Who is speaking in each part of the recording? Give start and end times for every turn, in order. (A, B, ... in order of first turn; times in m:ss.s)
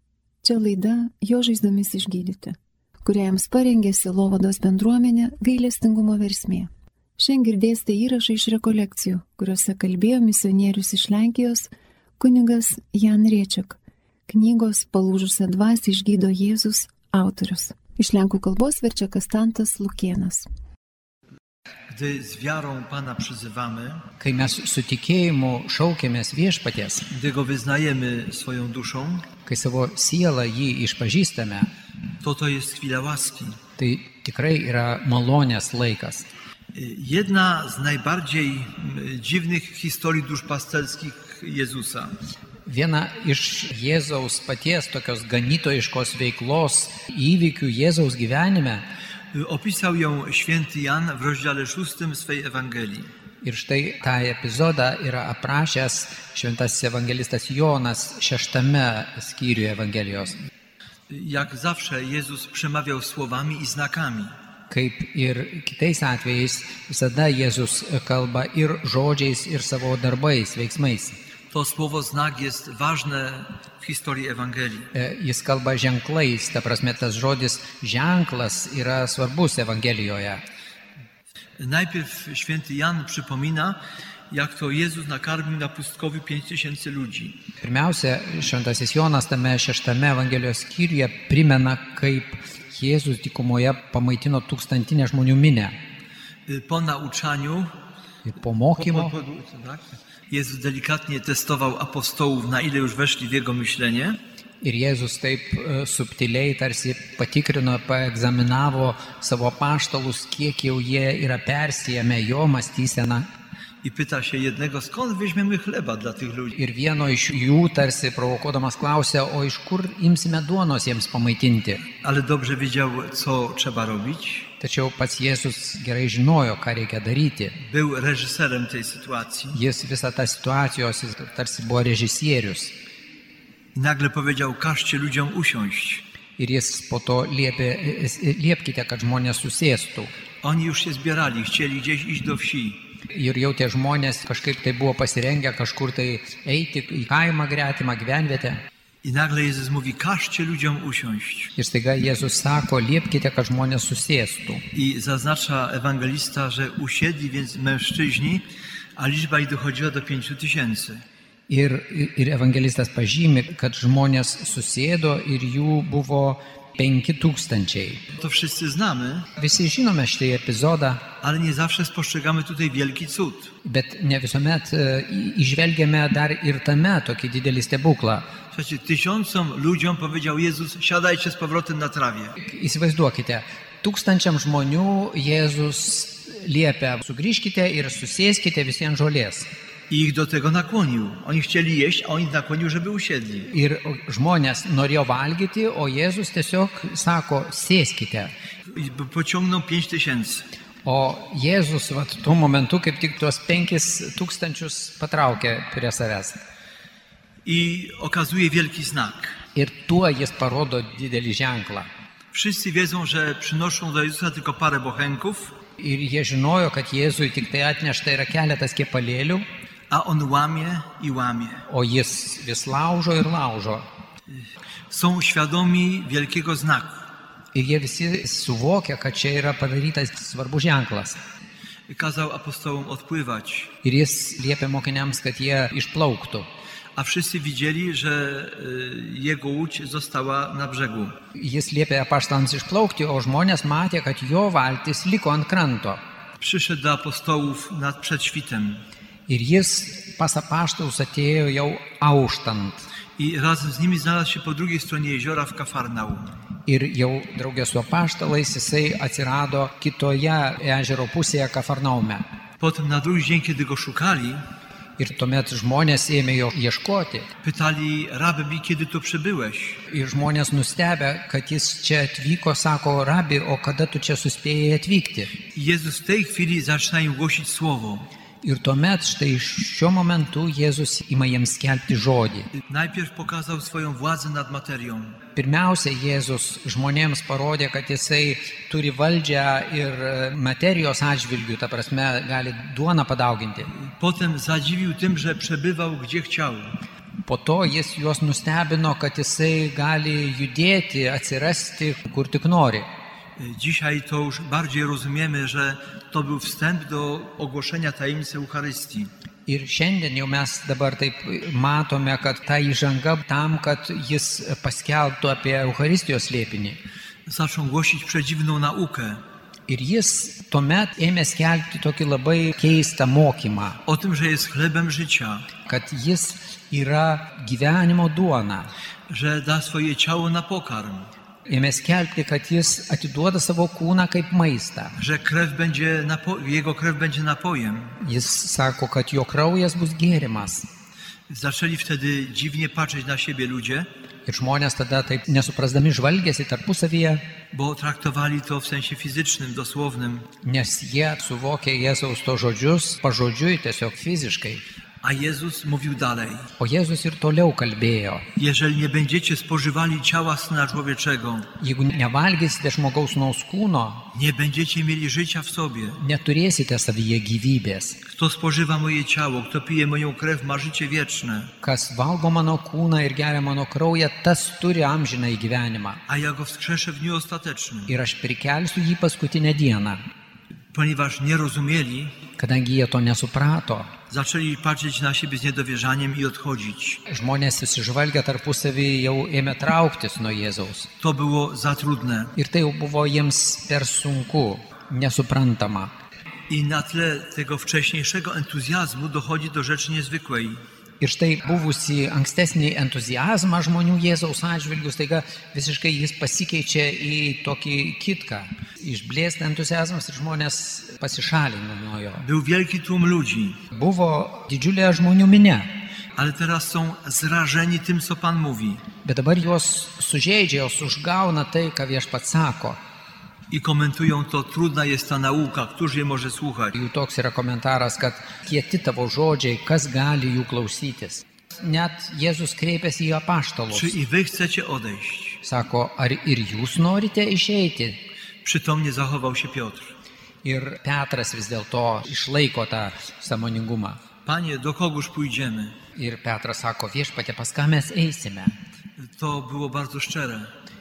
0:00.4-0:20.5 A
0:21.9-0:24.0 B
0:24.2-0:27.1 C
0:27.1-0:29.2 B
0:29.4-0:31.7 C
0:32.2-0:33.6 B
0:33.8-0:36.3 C
0:36.8-0:42.2 B
0:42.7-0:48.9 C
0:49.3-0:53.1 B
0:53.4-1:00.4 C
1:01.1-1:04.4 B
1:04.7-1:11.2 C
1:11.5-1:14.9 B
1:14.9-1:20.4 C
1:21.6-1:23.8 B
1:24.3-1:27.4 B
1:27.6-1:35.8 C
1:36.5-1:37.8 B
1:38.3-1:39.1 C
1:38.8-1:44.2 B
1:44.6-1:53.3 C
1:53.8-1:56.6 B
1:56.6-2:01.8 C
2:02.0-2:04.5 B
2:04.6-2:07.6 C
2:07.6-2:09.6 B
2:09.5-2:12.8 C
2:13.8-2:16.0 B
2:16.4-2:20.1 C
2:20.4-2:22.8 B
2:23.1-2:28.6 C
2:29.0-2:31.5 B
2:31.6-2:34.6 C
2:34.7-2:38.4 B
2:39.0-2:41.0 B
2:41.5-2:48.0 C
2:48.1-2:49.3 B
2:49.4-2:51.1 C
2:51.2-2:53.5 B
2:53.6-2:58.3 C
2:58.5-3:02.4 B
3:02.4-3:09.5 C
3:09.9-3:13.5 B
3:13.5-3:18.3 C
3:18.7-3:20.5 B
3:20.8-3:26.4 C
3:27.4-3:29.4 B
3:29.6-3:31.9 C
3:32.3-3:35.5 B
3:35.8-3:39.4 C
3:39.9-3:41.6 B
3:41.7-3:43.9 C
3:44.9-3:47.0 B
3:47.5-3:51.2 C
3:51.9-3:53.7 B
3:53.8-3:56.5 C
3:57.0-4:01.2 B
4:01.4-4:06.0 C
4:06.4-4:08.8 B
4:09.3-4:12.9 C
4:13.2-4:16.4 B
4:16.7-4:22.3 C
4:22.6-4:24.4 B
4:25.0-4:27.3 C
4:27.4-4:29.8 B
4:29.9-4:35.3 C
4:35.5-4:38.1 B
4:38.4-4:42.5 C
4:42.6-4:45.2 B
4:45.4-4:53.7 C
4:53.7-4:56.8 B
4:57.2-5:02.9 C
5:03.4-5:09.1 B
5:09.5-5:16.8 C
5:17.3-5:19.2 B
5:19.7-5:23.8 C
5:23.9-5:25.5 B
5:25.7-5:28.7 C
5:29.1-5:31.1 B
5:31.5-5:35.0 C
5:35.0-5:38.0 B
5:38.0-5:40.7 C
5:41.3-5:43.9 B
5:44.3-5:47.2 C
5:47.5-5:50.3 B
5:50.4-5:54.6 C
5:55.0-5:56.5 B
5:56.6-5:58.3 C
5:58.4-6:01.5 B
6:01.6-6:04.1 C
6:04.1-6:06.0 B
6:06.0-6:08.0 C
6:08.1-6:11.5 B
6:11.6-6:16.0 C
6:16.1-6:17.9 B
6:17.9-6:20.0 C
6:20.7-6:22.2 B
6:22.4-6:23.9 C
6:24.1-6:27.0 B
6:27.1-6:30.9 C
6:31.0-6:32.3 B
6:32.4-6:35.9 C
6:36.5-6:40.6 B
6:41.0-6:52.2 C
6:52.2-6:53.6 B
6:53.7-6:55.7 C
6:56.2-6:58.8 B
6:59.0-7:02.8 C
7:03.5-7:06.7 B
7:06.7-7:14.0 C
7:13.7-7:15.4 B
7:15.4-7:18.0 C
7:18.4-7:19.9 B
7:20.4-7:24.0 C
7:24.2-7:25.8 B
7:26.0-7:28.6 C
7:29.0-7:30.5 B